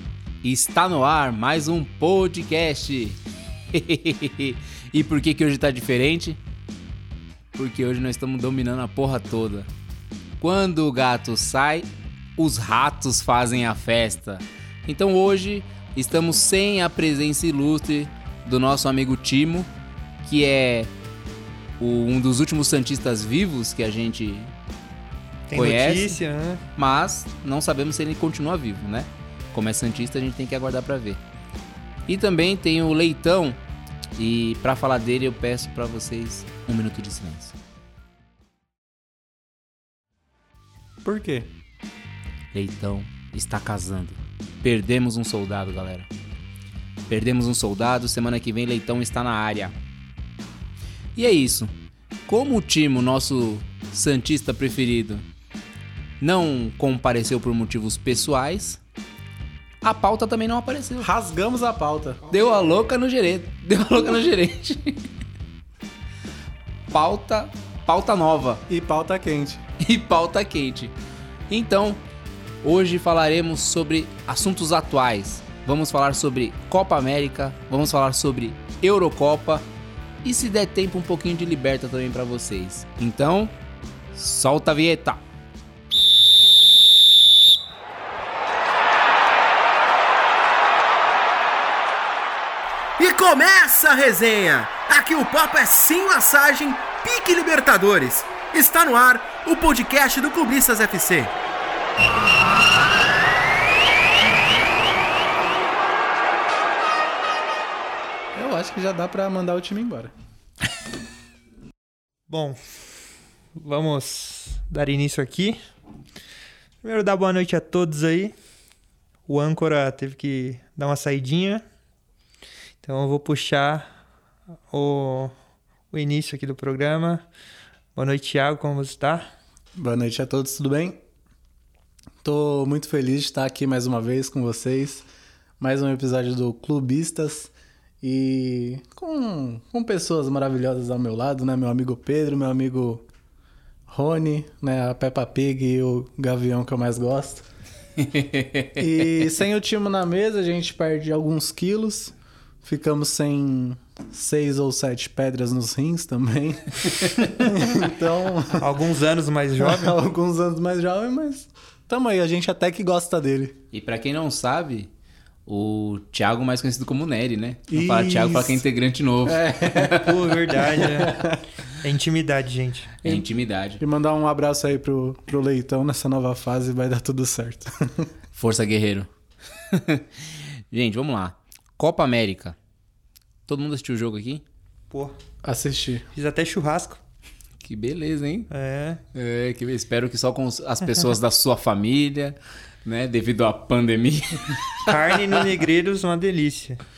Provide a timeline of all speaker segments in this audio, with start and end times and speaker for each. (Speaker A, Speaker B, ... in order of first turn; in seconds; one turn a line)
Speaker A: 0.4-3.2
Speaker A: 3.7-6.4
Speaker A: 7.5-9.7
Speaker A: 10.4-19.7
Speaker A: 20.2-20.9
Speaker A: 21.8-24.5
Speaker B: 25.5-26.6
Speaker A: 25.5-26.2
Speaker A: 26.8-31.2
Speaker A: 32.1-33.6
Speaker A: 34.2-37.5
Speaker B: 41.0-41.5
Speaker A: 42.5-46.1
Speaker A: 47.1-49.7
Speaker A: 51.1-51.7
Speaker A: 52.3-55.2
Speaker A: 56.2-58.8
Speaker A: 59.8-61.1
Speaker C: 61.0-62.3
Speaker A: 62.3-65.0
Speaker A: 66.9-68.6
Speaker C: 68.7-69.6
Speaker A: 69.8-70.9
Speaker A: 71.5-72.0
Speaker A: 72.6-79.6
Speaker A: 80.2-83.5
Speaker A: 84.1-85.2
Speaker D: 93.0-101.3
Speaker C: 108.3-110.1
Speaker B: 112.3-112.6
Speaker B: 113.5-115.6
Speaker B: 116.8-118.3
Speaker B: 119.3-121.6
Speaker B: 122.8-123.9
Speaker B: 124.7-125.3
Speaker B: 125.9-127.2
Speaker B: 127.9-129.3
Speaker C: 129.8-131.0
Speaker C: 132.2-135.0
Speaker C: 135.6-143.0
Speaker C: 143.9-147.4
Speaker A: 148.0-148.8
Speaker C: 148.8-152.1
Speaker C: 152.6-158.7
Speaker B: 158.6-159.9
Speaker C: 159.6-163.6
Speaker A: 163.7-164.9
Speaker A: 165.4-170.1
Speaker C: 167.7-168.6
Speaker C: 169.2-171.4
Speaker B: 170.0-171.2
Speaker B: 171.8-172.9
Speaker A: 173.0-173.8
Speaker C: 173.8-178.1
Speaker A: 178.3-179.1
Speaker A: 179.7-180.1
Speaker A: 180.7-182.6
Speaker A: 183.5-184.4
Speaker C: 185.4-186.1
Speaker B: 186.1-187.0
Speaker A: 187.6-188.5
Speaker B: 188.5-189.0
Speaker A: 189.1-194.9
Speaker B: 194.8-196.8